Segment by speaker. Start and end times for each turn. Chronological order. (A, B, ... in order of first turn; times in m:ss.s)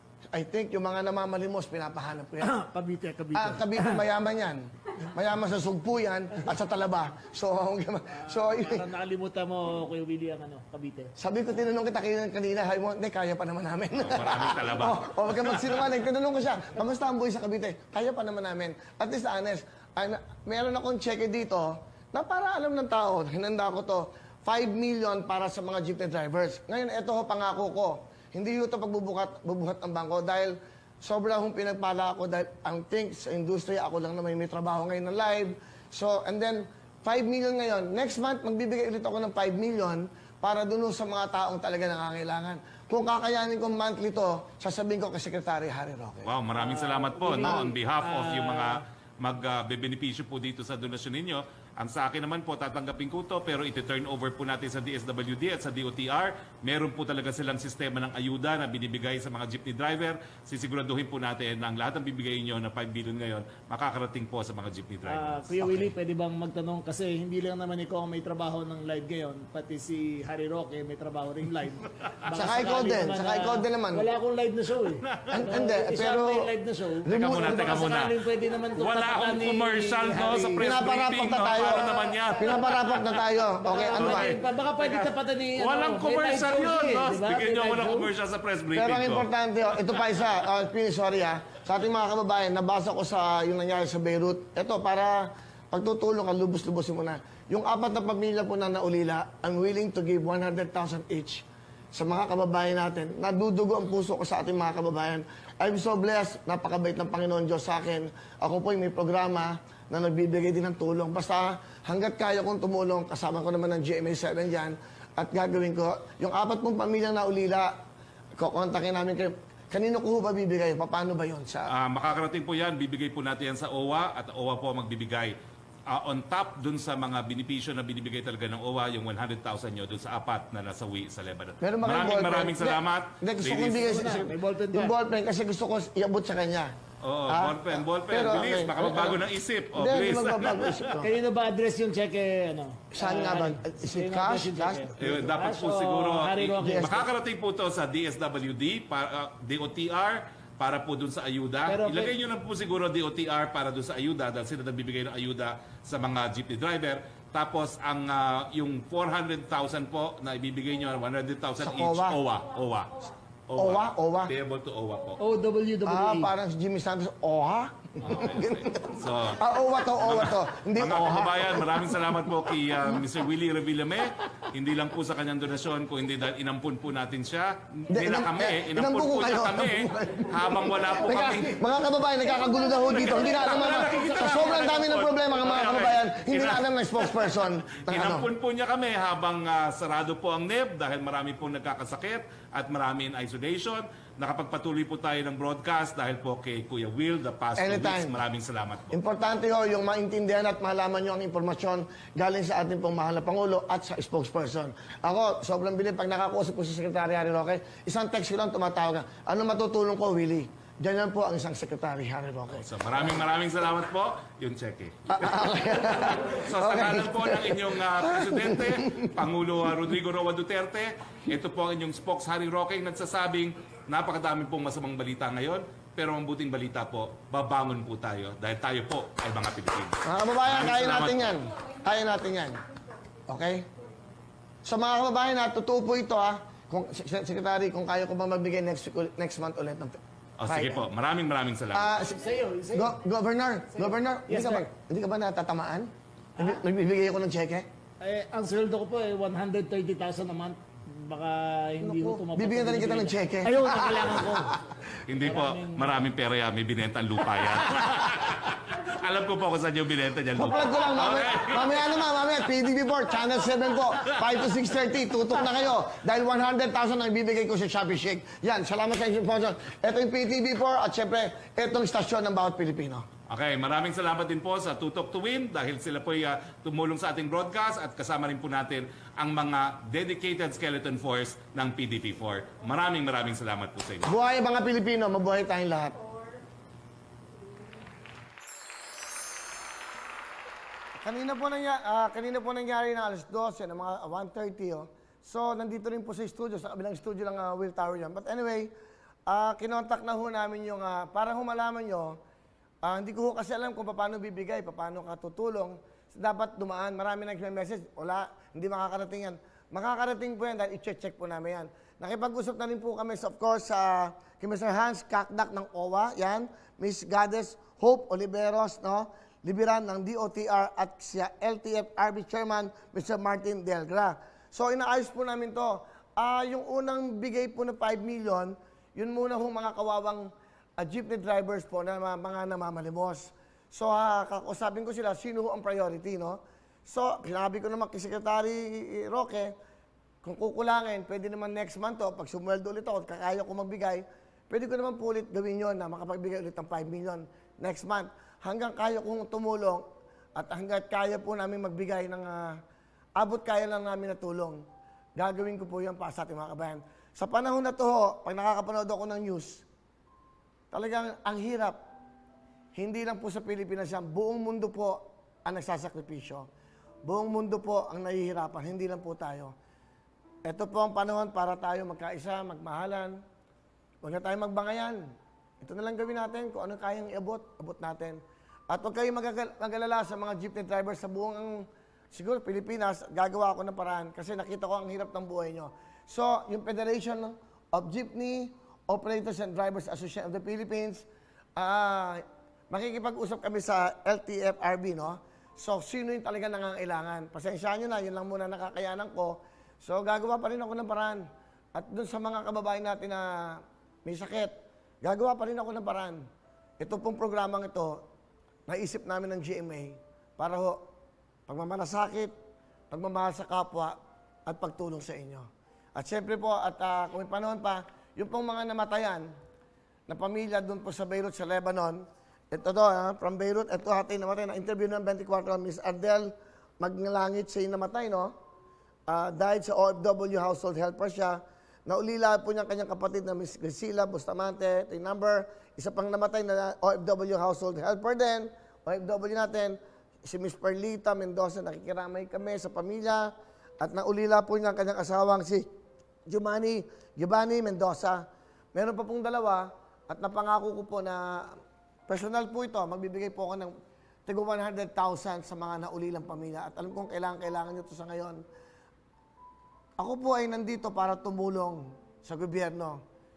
0:00.3-0:02.5 A
0:02.4-0:04.0 B
0:03.3-0:08.9 A
0:08.1-0:11.1 B
0:11.2-0:46.3 A
0:14.0-0:15.8 C
0:46.2-1:05.9 C
0:46.6-0:48.8 B
1:05.1-1:20.7 B
1:12.3-1:14.1 A
1:15.0-1:15.5 C
1:15.3-1:16.5 A
1:17.0-1:17.9 A
1:17.1-1:18.1 C
1:18.8-1:30.3 C
1:20.6-1:24.3 A
1:21.6-1:22.3 B
1:23.6-1:28.1 B
1:28.8-1:57.7 A
1:58.4-2:01.7 A
2:01.7-2:05.3 C
2:05.9-2:14.2 C
2:11.6-2:16.7 A
2:13.8-2:14.9 B
2:17.0-2:21.0 C
2:17.3-2:19.2 A
2:19.7-2:21.1 A
2:21.0-2:27.1 B
2:22.9-2:25.2 A
2:25.0-2:45.2 C
2:26.6-2:27.0 A
2:31.7-2:32.1 B
2:41.6-2:42.2 A
2:43.6-2:44.3 A
2:45.2-2:46.3 B
2:45.9-2:51.9 A
2:48.0-3:01.6 C
2:57.9-3:08.3 A
3:02.8-3:19.0 C
3:17.6-3:18.2 A
3:18.9-3:33.2 A
3:32.5-3:51.4 C
3:35.1-3:39.2 A
3:50.0-3:52.6 A
3:53.3-3:53.7 A
3:54.6-4:00.9 A
4:00.4-4:01.9 C
4:01.7-4:02.2 A
4:02.0-4:03.0 B
4:02.7-4:07.7 A
4:03.7-4:04.7 B
4:08.0-4:14.6 B
4:11.8-4:14.6 A
4:15.1-4:22.3 C
4:15.2-4:15.9 B
4:20.4-4:33.0 A
4:24.1-4:24.6 C
4:33.3-4:44.1 C
4:44.1-4:46.0 A
4:51.0-4:58.7 A
4:59.3-5:02.2 A
5:02.8-5:39.5 A
5:40.2-5:49.8 A
5:50.4-5:52.6 A
5:53.2-5:54.6 A
5:55.2-5:59.6 A
6:00.7-6:01.8 A
6:02.8-6:06.5 A
6:07.0-6:09.5 A
6:10.4-6:13.2 A
6:14.0-6:15.0 A
6:15.6-6:46.2 A
6:46.8-6:48.0 A
6:48.7-6:50.8 A
6:51.5-6:52.3 A
6:52.9-6:59.3 A
7:00.1-7:08.3 A
7:09.1-7:25.7 A
7:26.3-7:31.6 A
7:32.1-7:33.7 A
7:34.3-7:38.4 A
7:40.0-7:43.0 A